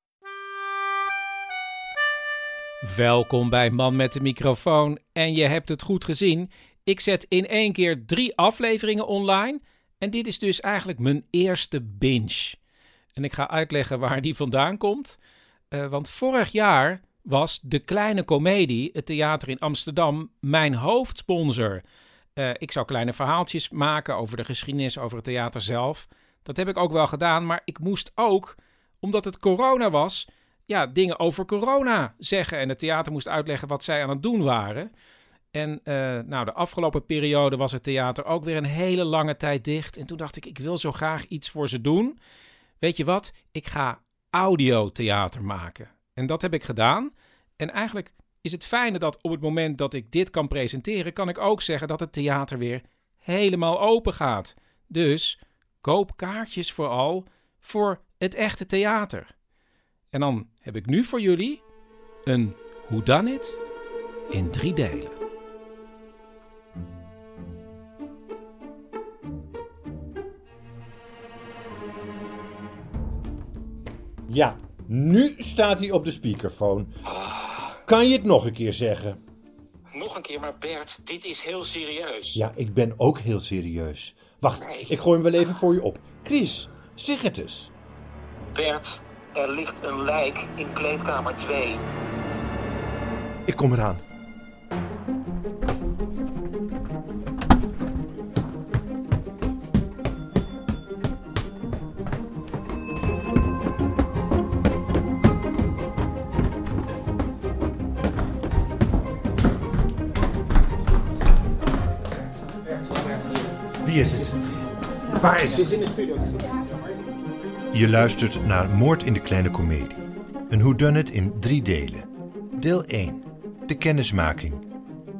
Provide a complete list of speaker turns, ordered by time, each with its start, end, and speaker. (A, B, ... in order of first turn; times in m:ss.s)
0:02.8-0:12.6 A
0:13.1-0:15.2 A
0:15.7-0:21.8 A
0:22.4-0:34.9 A
0:35.5-0:42.2 A
0:42.8-0:59.3 A
1:00.1-1:01.6 A
1:02.2-1:03.6 A
1:04.3-1:05.2 A
1:14.3-1:16.9 B
1:17.8-1:19.2 B
1:19.9-1:22.3 C
1:22.3-1:27.7 B
1:28.5-1:31.8 C
1:33.4-1:34.0 B
1:52.6-1:53.5 A
1:53.8-1:54.4 B
1:55.1-1:55.7 B
1:55.1-1:56.9 A
1:57.7-2:04.6 B